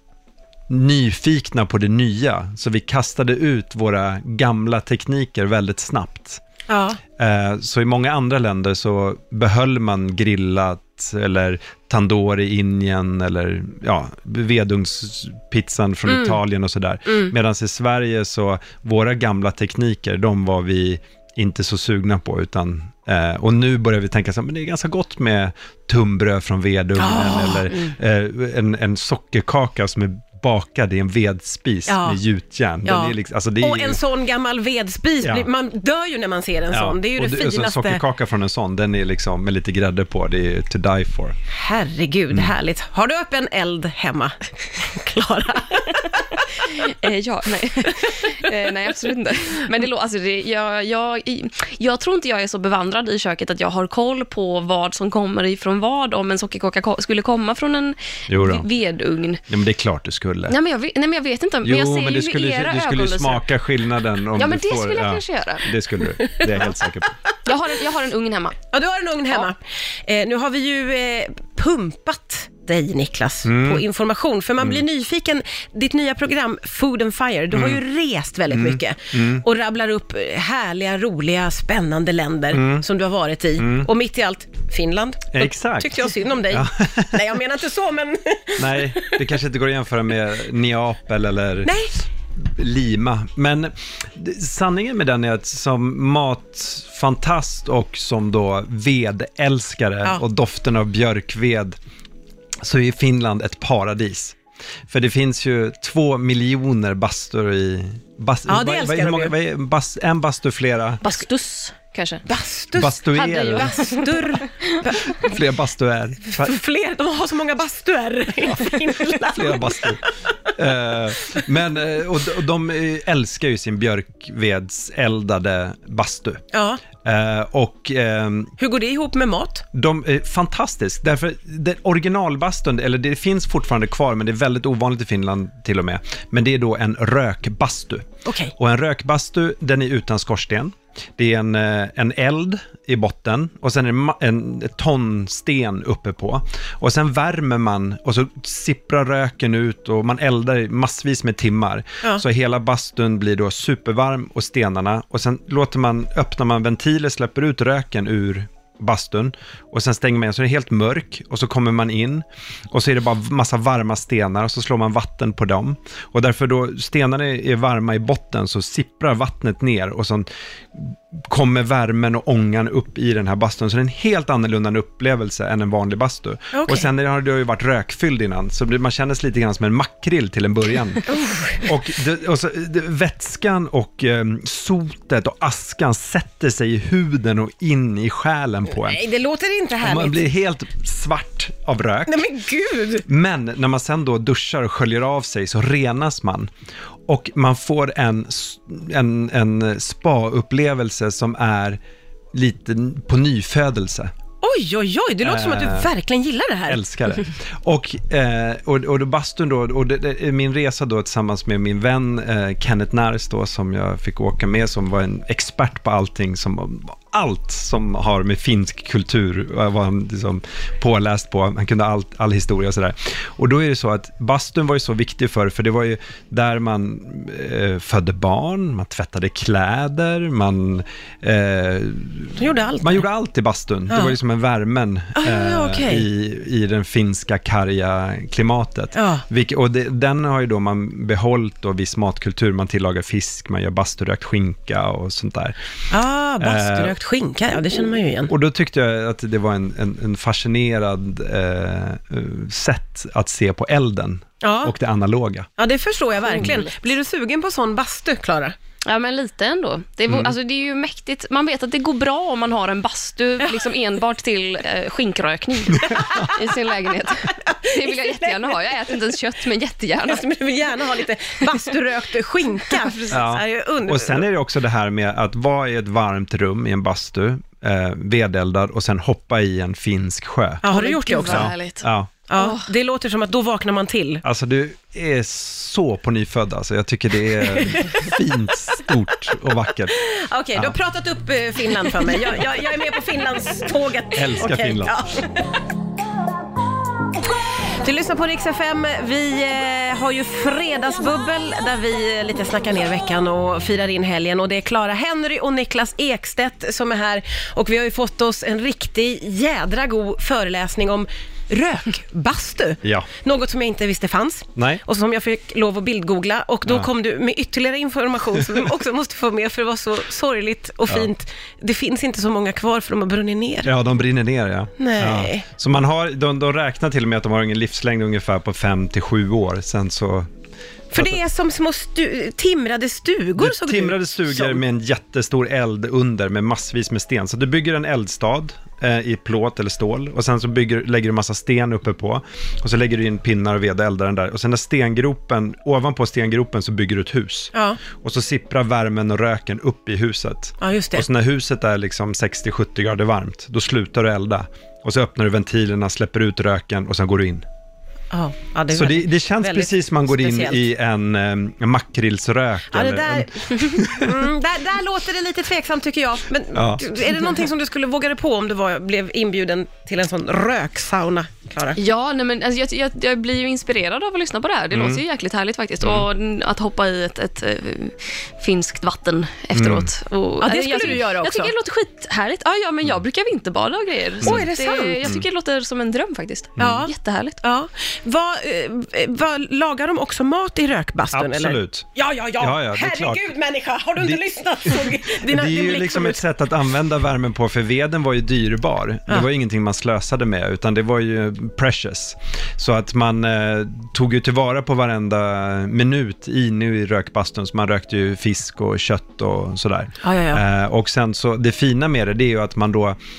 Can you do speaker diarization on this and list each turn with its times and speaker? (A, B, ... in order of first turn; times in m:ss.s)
0:00.7-0:06.4 A
0:06.7-0:07.0 B
0:07.2-0:34.0 A
0:16.1-0:16.4 B
0:17.0-0:17.3 B
0:27.0-0:27.7 B
0:31.9-0:32.2 B
0:32.8-0:38.0 B
0:35.2-0:35.5 A
0:36.7-0:41.4 A
0:41.5-0:46.4 B
0:46.4-0:59.4 C
0:58.3-0:58.6 A
0:59.5-1:00.6 A
1:00.5-1:03.4 C
1:01.6-1:07.1 A
1:04.3-1:05.7 C
1:06.3-1:06.7 B
1:07.4-1:08.6 C
1:08.7-1:29.2 B
1:13.4-1:13.8 A
1:17.5-1:17.8 A
1:18.5-1:19.4 A
1:22.5-1:22.8 A
1:23.6-1:23.9 A
1:25.3-1:27.2 A
1:28.6-1:31.8 A
1:31.6-1:32.0 B
1:32.4-1:41.8 A
1:42.6-1:44.4 A
1:44.9-1:51.1 A
1:48.5-1:49.3 B
1:51.0-1:52.2 C
1:52.2-1:55.3 B
1:52.7-1:53.7 A
1:53.2-1:54.7 C
1:55.1-1:56.5 A
1:56.2-2:00.1 B
1:58.4-2:00.0 A
2:00.5-2:08.5 A
2:06.5-2:06.8 B
2:08.6-2:09.6 B
2:09.7-3:01.0 A
2:18.2-2:18.5 B
2:56.5-2:56.9 B
3:01.1-3:01.6 B
3:01.6-3:09.0 A
3:08.7-3:10.2 B
3:09.8-3:12.3 A
3:12.0-3:13.0 B
3:13.0-3:16.5 A
3:17.1-3:21.8 A
3:22.3-3:24.1 A
3:24.4-3:26.8 B
3:25.2-3:25.9 A
3:26.7-4:05.5 A
3:52.4-3:53.0 B
3:53.9-3:54.2 B
3:55.2-3:56.0 B
3:58.9-3:59.2 B
4:05.9-4:08.3 B
4:06.4-4:07.0 A
4:08.3-4:15.5 A
4:14.4-4:14.7 B
4:15.6-4:18.6 B
4:16.2-4:16.9 C
4:18.8-4:30.2 C
4:25.8-4:26.3 A
4:25.9-4:26.5 B
4:27.3-4:28.9 B
4:30.0-4:34.2 B
4:33.1-4:40.6 A
4:40.6-4:41.5 B
4:40.7-4:42.7 C
4:41.2-4:42.1 A
4:42.3-4:44.2 B
4:44.2-4:50.0 A
4:47.4-4:48.1 B
4:49.9-4:55.6 B
4:54.1-4:55.1 A
4:57.8-5:23.7 B
5:12.8-5:13.1 A
5:14.6-5:14.8 A
5:23.6-5:30.3 A
5:24.8-5:25.4 B
5:30.9-5:31.2 A
5:30.9-5:34.6 B
5:33.4-5:57.4 A
5:47.5-5:47.8 B
5:50.6-5:51.0 B
5:58.1-6:00.6 B
5:58.7-6:04.3 A
6:02.7-6:11.8 B
6:06.5-6:07.3 A
6:11.8-6:27.4 C
6:14.7-6:15.0 A
6:15.8-6:16.1 A
6:19.5-6:19.9 A
6:20.4-6:21.5 B
6:24.2-6:25.1 B
6:26.6-6:26.9 A
6:26.6-6:26.9 B
6:27.4-6:36.2 B
6:31.1-6:31.9 A
6:32.4-6:33.3 A
6:34.0-6:53.0 A
6:50.0-6:50.4 B